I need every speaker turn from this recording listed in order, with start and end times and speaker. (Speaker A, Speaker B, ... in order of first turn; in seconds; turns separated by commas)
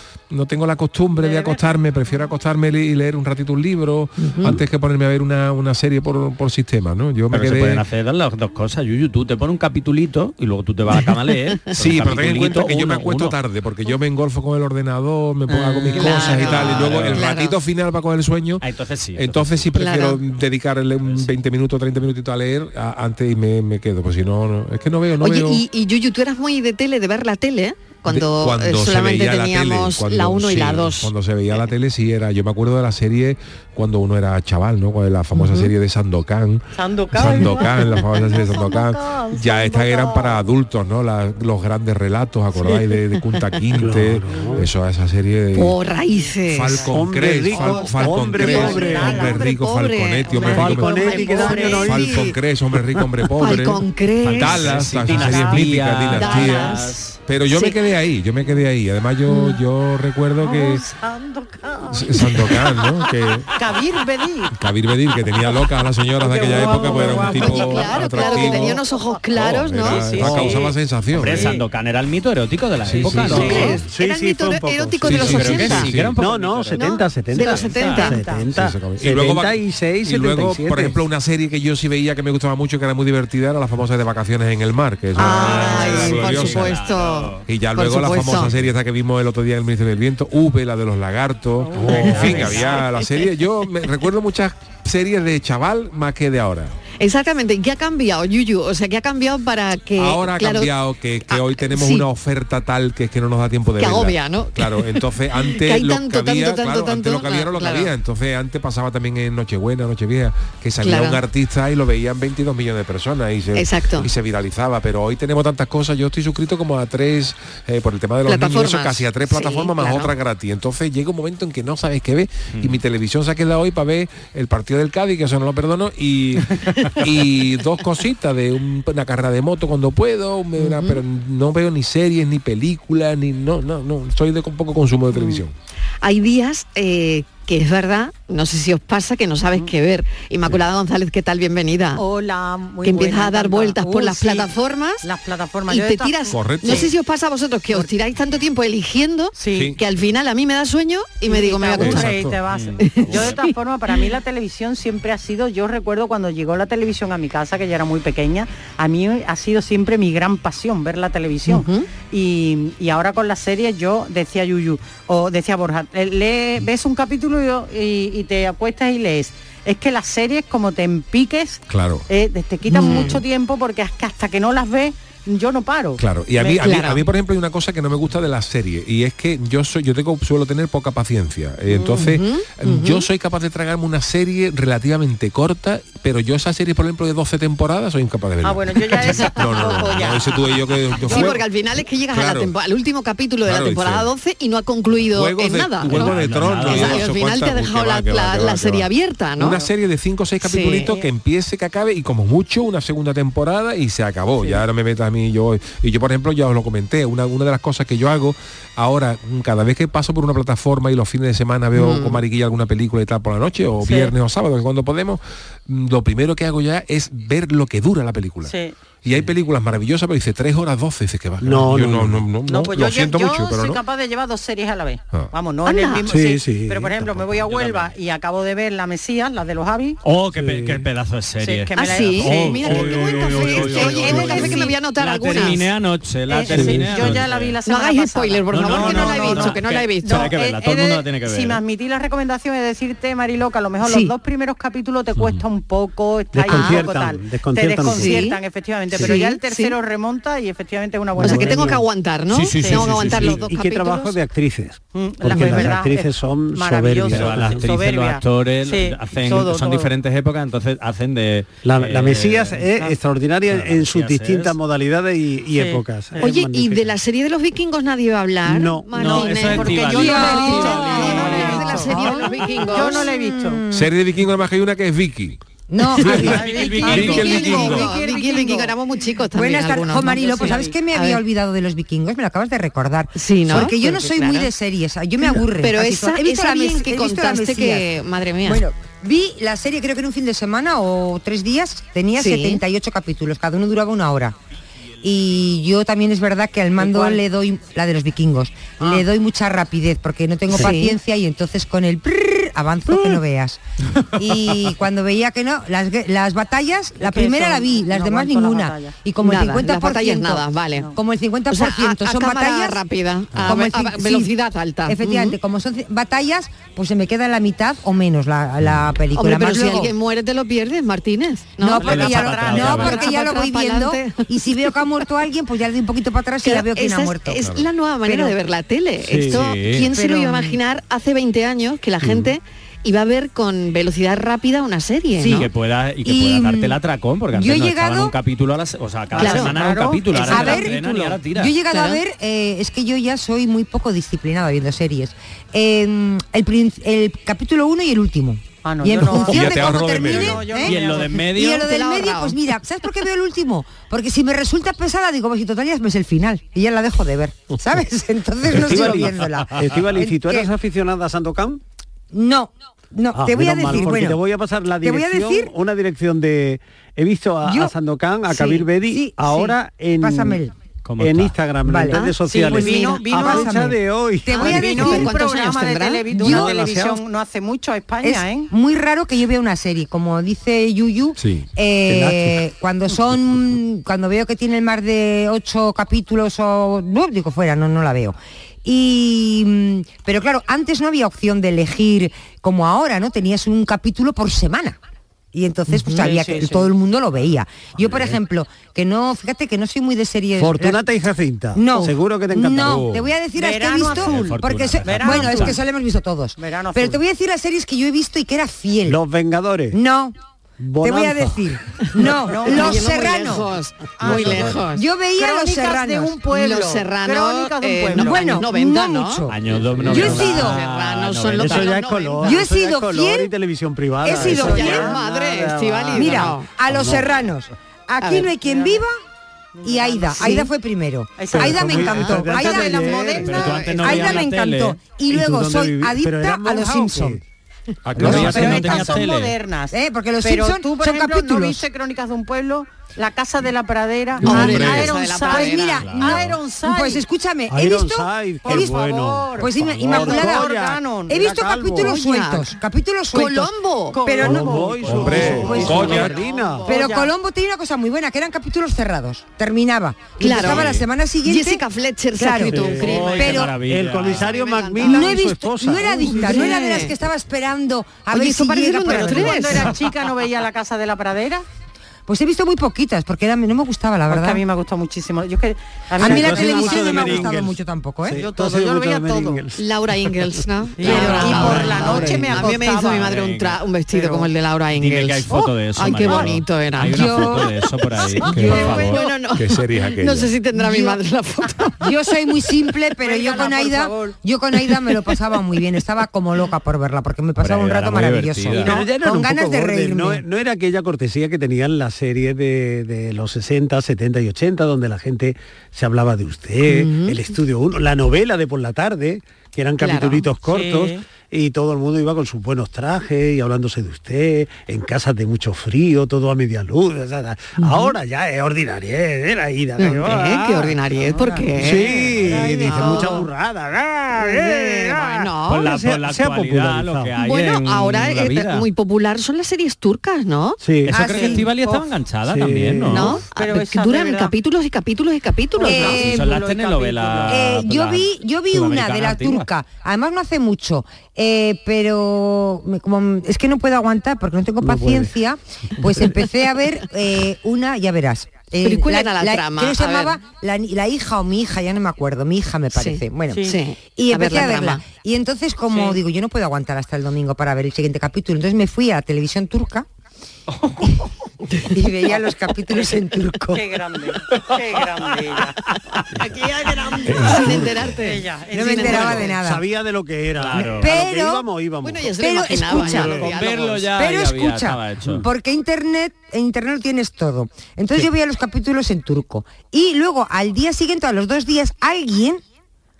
Speaker A: 0.3-7.8, Speaker B: 1.2-1.8, Speaker C: 4.2-4.6, Speaker D: 7.3-13.4, Speaker A: 11.7-18.6, Speaker D: 15.6-17.3, Speaker C: 15.9-17.6, Speaker D: 18.6-19.7, Speaker A: 19.1-25.6, Speaker C: 19.7-20.2, Speaker D: 21.0-21.4, Speaker C: 25.2-31.1, Speaker A: 28.1-45.8, Speaker C: 35.3-35.7, Speaker B: 36.7-40.4, Speaker E: 43.7-44.7, Speaker C: 45.5-46.9, Speaker A: 46.5-60.8, Speaker E: 46.9-49.3, Speaker B: 47.5-49.5, Speaker C: 48.3-52.3, Speaker B: 50.3-52.0, Speaker E: 50.5-52.3, Speaker C: 53.4-55.5, Speaker D: 54.2-57.2, Speaker B: 55.2-55.6, Speaker C: 56.1-57.0, Speaker C: 57.5-57.8, Speaker C: 59.3-59.6, Speaker B: 60.4-62.8, Speaker A: 61.9-63.5, Speaker B: 63.5-64.5, Speaker A: 64.5-68.8, Speaker B: 66.2-68.8, Speaker C: 66.7-70.1, Speaker A: 69.3-71.5, Speaker B: 69.9-70.7, Speaker E: 70.2-70.6, Speaker D: 71.1-73.8, Speaker B: 71.3-71.6, Speaker A: 72.8-73.6, Speaker E: 73.2-81.0, Speaker B: 73.3-73.7, Speaker C: 73.3-75.9, Speaker A: 75.1-76.2, Speaker D: 75.1-78.2, Speaker C: 76.7-78.2, Speaker B: 78.0-78.5, Speaker A: 78.5-86.8, Speaker D: 85.2-87.4, Speaker C: 85.2-88.5, Speaker A: 87.5-96.8, Speaker B: 91.6-92.8, Speaker E: 91.8-92.4, Speaker C: 91.9-93.0, Speaker C: 97.0-100.7, Speaker A: 100.0-135.5, Speaker C: 101.3-102.0, Speaker C: 103.8-107.9, Speaker C: 110.8-111.2, Speaker C: 113.5-114.1, Speaker C: 118.2-120.1, Speaker D: 122.5-122.8, Speaker C: 130.6-131.0, Speaker B: 135.1-135.4, Speaker C: 136.0-142.0, Speaker B: 141.9-144.5, Speaker C: 142.8-145.0, Speaker B: 145.0-146.9, Speaker C: 145.7-152.1, Speaker A: 146.3-146.9, Speaker B: 149.3-149.8, Speaker B: 151.2-176.0, Speaker A: 151.8-152.1, Speaker D: 152.5-153.4, Speaker C: 152.8-153.5, Speaker C: 161.5-161.8, Speaker A: 171.7-172.1, Speaker C: 172.7-173.2, Speaker A: 176.0-191.4, Speaker C: 176.4-177.0, Speaker C: 181.7-183.1, Speaker B: 188.4-190.5, Speaker C: 189.1-190.1, Speaker C: 191.0-199.6, Speaker B: 191.1-191.3, Speaker A: 192.1-192.5, Speaker A: 193.4-194.1, Speaker A: 195.1-223.8, Speaker D: 195.8-197.1, Speaker C: 200.4-200.9, Speaker C: 211.7-212.2, Speaker B: 218.4-218.8, Speaker E: 221.4-222.2, Speaker B: 222.5-230.0, Speaker C: 225.6-226.1, Speaker E: 226.1-227.2, Speaker D: 227.5-227.9, Speaker D: 230.0-237.6, Speaker E: 230.3-230.9, Speaker B: 231.4-234.6, Speaker C: 231.7-235.7, Speaker E: 232.5-234.6, Speaker B: 236.3-251.7, Speaker E: 236.5-237.2, Speaker C: 237.7-240.3, Speaker D: 238.5-241.6, Speaker C: 243.8-244.1, Speaker E: 246.3-248.3, Speaker C: 246.5-246.9, Speaker C: 247.8-248.4, Speaker C: 248.9-249.7, Speaker E: 251.2-251.8, Speaker C: 251.2-254.1, Speaker D: 252.3-253.4, Speaker B: 252.6-253.0, Speaker E: 252.9-257.7, Speaker B: 254.9-259.9, Speaker D: 255.3-255.6, Speaker D: 257.0-262.7, Speaker E: 261.6-266.9, Speaker D: 263.5-264.5, Speaker B: 265.5-266.2, Speaker C: 266.2-273.1, Speaker E: 268.4-269.2, Speaker D: 268.9-271.9, Speaker B: 269.1-273.6, Speaker F: 269.9-273.9, Speaker A: 273.7-275.4, Speaker F: 275.7-276.4, Speaker A: 276.0-277.9, Speaker D: 276.0-277.7, Speaker B: 276.2-278.7, Speaker C: 276.8-281.2, Speaker F: 279.3-287.9, Speaker B: 280.3-280.7, Speaker C: 283.1-284.5, Speaker C: 285.2-288.6, Speaker F: 288.4-294.3, Speaker C: 292.1-292.6, Speaker F: 295.0-303.6, Speaker B: 296.9-297.1, Speaker C: 300.5-301.0, Speaker F: 304.1-312.8, Speaker B: 307.0-308.9, Speaker C: 309.2-310.9, Speaker C: 311.5-315.3, Speaker F: 313.4-314.3, Speaker F: 314.9-319.9, Speaker C: 319.1-324.2, Speaker F: 321.6-327.5, Speaker B: 321.8-323.1, Speaker D: 321.8-323.1, Speaker C: 326.4-335.5, Speaker A: 327.4-327.7, Speaker F: 328.1-328.4, Speaker E: 329.0-329.5, Speaker D: 329.3-329.9, Speaker F: 329.9-330.6, Speaker F: 335.2-335.5, Speaker D: 335.2-341.6, Speaker F: 336.0-336.8, Speaker F: 337.3-338.1, Speaker B: 339.1-340.6, Speaker C: 339.2-339.5, Speaker F: 340.3-340.8, Speaker E: 340.7-341.2, Speaker F: 341.3-360.5, Speaker B: 348.6-351.1, Speaker A: 349.1-350.5, Speaker D: 350.6-351.7, Speaker C: 351.6-352.4, Speaker E: 358.5-361.6, Speaker F: 362.1-364.2, Speaker E: 363.1-370.4, Speaker F: 364.8-365.5, Speaker F: 367.4-367.7, Speaker F: 368.3-370.5, Speaker D: 370.8-371.4, Speaker E: 371.0-375.1, Speaker F: 371.6-375.1, Speaker B: 372.3-373.6, Speaker C: 374.3-376.0, Speaker B: 374.3-378.5, Speaker E: 376.1-377.0, Speaker F: 376.2-376.5, Speaker F: 378.0-394.8, Speaker E: 381.9-382.4, Speaker F: 395.3-400.8, Speaker C: 395.7-396.1, Speaker B: 396.0-396.7, Speaker E: 397.8-398.1, Speaker E: 400.4-402.9, Speaker F: 401.5-409.0, Speaker A: 402.6-403.1, Speaker B: 403.4-405.6, Speaker D: 403.8-405.6, Speaker B: 406.4-407.0, Speaker E: 408.9-409.8, Speaker F: 409.7-410.1, Speaker E: 410.6-411.5, Speaker F: 410.8-413.5, Speaker C: 412.1-414.9, Speaker B: 412.3-412.9, Speaker B: 414.0-414.6, Speaker E: 414.1-414.6, Speaker F: 414.1-416.1, Speaker B: 415.2-418.4, Speaker C: 416.3-419.2, Speaker F: 417.9-420.6, Speaker D: 419.3-421.8, Speaker E: 419.5-420.5, Speaker C: 419.9-422.4, Speaker E: 421.3-427.1, Speaker F: 422.2-423.3, Speaker F: 424.0-424.9, Speaker C: 424.1-426.5, Speaker B: 424.3-425.0, Speaker F: 425.9-428.9, Speaker C: 428.0-428.3, Speaker B: 428.4-428.8, Speaker B: 429.5-430.5, Speaker F: 429.6-433.1, Speaker B: 431.2-433.9, Speaker E: 431.3-434.0, Speaker D: 433.2-434.8, Speaker F: 433.8-437.2, Speaker E: 435.1-437.2, Speaker D: 437.9-439.4, Speaker E: 438.0-438.4, Speaker F: 438.0-439.0, Speaker B: 438.0-447.0, Speaker F: 439.7-441.6, Speaker C: 444.2-445.9, Speaker F: 444.2-448.8, Speaker D: 445.8-446.4, Speaker E: 447.5-451.9, Speaker B: 448.4-451.3, Speaker F: 449.4-450.5, Speaker F: 451.1-453.5, Speaker C: 451.8-452.5, Speaker C: 453.1-454.0, Speaker B: 453.9-457.1, Speaker F: 454.0-456.1, Speaker E: 454.2-456.7, Speaker A: 454.9-456.1, Speaker C: 455.5-456.6, Speaker F: 456.6-461.6, Speaker C: 460.2-463.4, Speaker D: 460.4-460.8, Speaker F: 462.2-463.5, Speaker E: 462.5-466.6, Speaker D: 462.8-464.4, Speaker C: 464.1-465.1, Speaker F: 464.8-469.7, Speaker C: 466.0-466.9, Speaker C: 468.1-469.8, Speaker B: 468.9-471.4, Speaker F: 472.1-474.4, Speaker B: 474.1-477.3, Speaker F: 476.0-478.2, Speaker E: 476.0-482.3, Speaker B: 478.1-479.4, Speaker C: 479.6-487.3, Speaker B: 480.8-483.2, Speaker F: 480.8-482.0, Speaker D: 482.2-483.6, Speaker B: 483.9-484.2, Speaker D: 484.7-489.0, Speaker B: 486.0-486.3, Speaker F: 486.9-487.5, Speaker C: 488.2-491.8, Speaker A: 488.3-488.7, Speaker F: 488.4-488.8, Speaker B: 488.4-488.9, Speaker A: 489.3-490.3, Speaker F: 490.5-491.0, Speaker F: 491.8-500.2, Speaker B: 493.0-494.1, Speaker D: 497.4-498.8, Speaker E: 498.6-520.8, Speaker C: 506.6-507.2, Speaker C: 509.8-510.2, Speaker B: 510.4-511.0, Speaker C: 517.6-517.9, Speaker C: 519.8-522.0, Speaker B: 521.0-523.3, Speaker E: 521.6-527.1, Speaker C: 522.6-523.2, Speaker C: 524.1-525.7, Speaker D: 525.5-528.6, Speaker C: 527.2-530.6, Speaker E: 530.6-531.1, Speaker D: 530.9-533.2, Speaker F: 530.9-531.5, Speaker B: 531.1-531.8, Speaker E: 532.2-533.2, Speaker C: 532.9-536.0, Speaker B: 533.3-534.3, Speaker B: 535.6-537.4, Speaker F: 535.6-536.3, Speaker D: 535.7-539.5, Speaker F: 537.3-559.9, Speaker E: 544.6-545.1, Speaker C: 548.6-550.2, Speaker C: 552.7-554.8, Speaker B: 555.7-556.0, Speaker F: 561.7-563.6, Speaker B: 563.5-565.6, Speaker E: 566.1-567.6, Speaker C: 566.7-569.1, Speaker B: 568.0-569.3, Speaker F: 568.5-569.6, Speaker E: 568.8-572.2, Speaker D: 570.4-570.9, Speaker F: 570.6-571.5, Speaker C: 571.8-573.9, Speaker F: 572.2-573.2, Speaker E: 572.7-573.3, Speaker D: 573.0-575.2, Speaker F: 573.9-582.4